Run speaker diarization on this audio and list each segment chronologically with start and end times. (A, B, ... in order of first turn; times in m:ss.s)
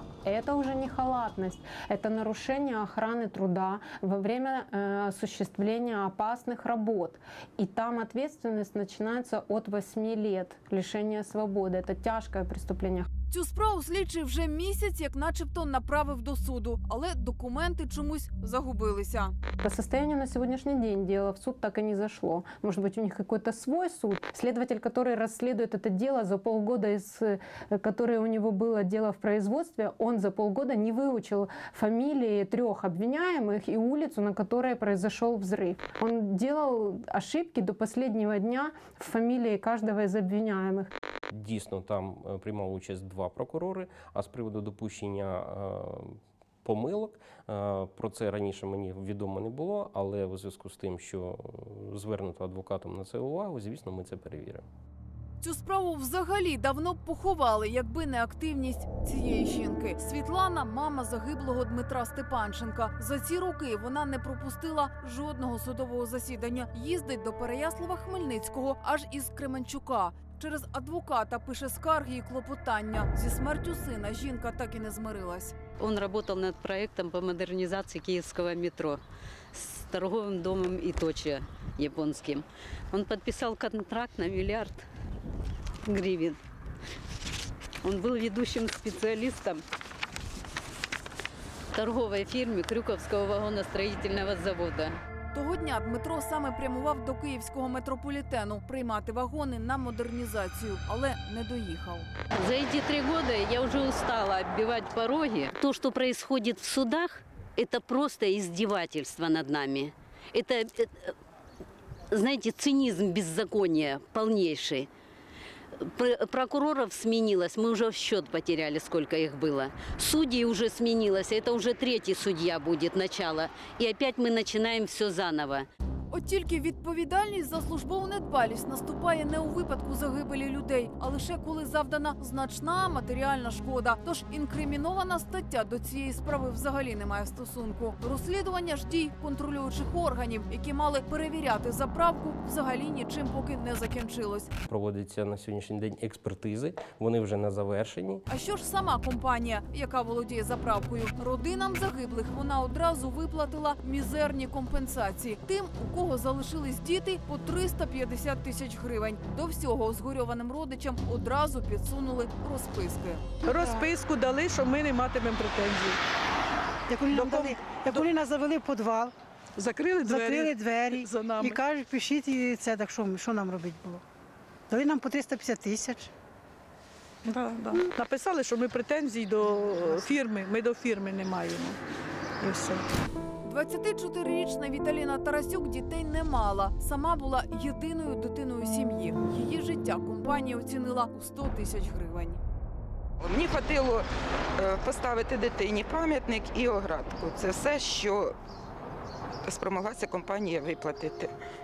0:00.2-0:13.1 A
0:13.3-0:19.3 B
0:19.6-0:40.9 A
0:41.3-0:54.6 C
0:55.4-1:15.5 B
1:15.8-1:19.0 D
1:19.5-1:24.8 D
1:25.8-1:26.4 D
1:27.8-1:29.6 D
1:31.7-1:35.0 D
1:35.3-1:42.1 B
1:42.4-1:51.1 D
1:52.1-1:54.9 D
1:55.8-2:05.7 D
2:06.1-2:24.5 B
2:24.7-2:28.2 C
2:28.3-2:43.2 B
2:43.4-2:46.0 E
2:43.5-2:43.9 F
2:46.9-2:49.1 F
2:47.1-2:48.1 E
2:49.6-2:51.6 E
2:50.0-2:54.0 F
2:54.7-2:56.1 F
2:57.2-3:01.8 E
3:02.4-3:02.8 E
3:03.4-3:12.4 B
3:13.2-3:14.0 G
3:14.6-3:18.3 G
3:19.4-3:21.3 G